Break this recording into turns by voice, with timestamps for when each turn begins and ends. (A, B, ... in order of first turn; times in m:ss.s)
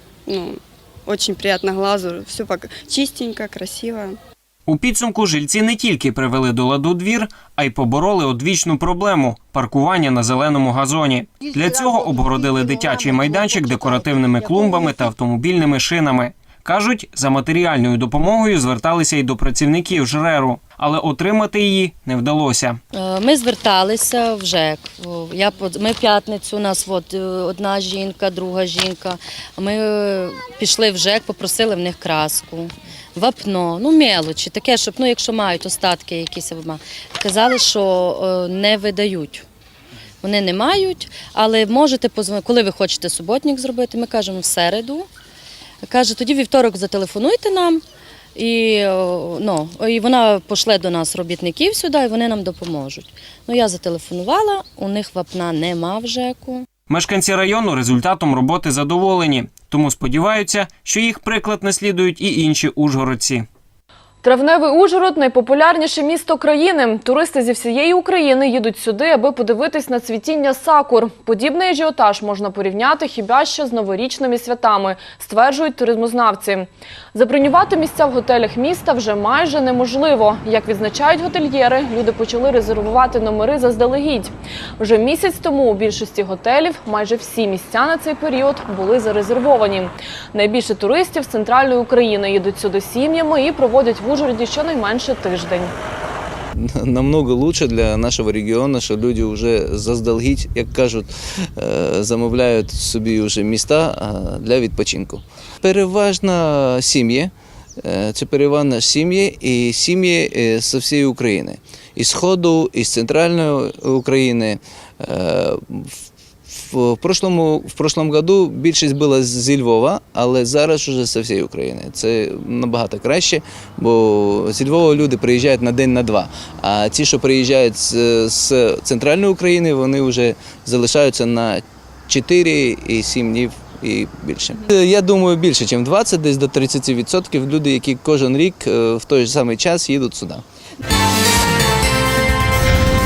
0:00.3-0:04.2 A
0:04.7-0:22.8 B
0:22.9-0:39.4 C
0:40.2-0:45.1 C
0:45.8-0:47.8 C
0:48.4-0:56.6 C
0:56.9-1:03.5 B
1:04.2-1:35.7 D
1:36.5-1:55.9 E
1:56.5-2:20.4 E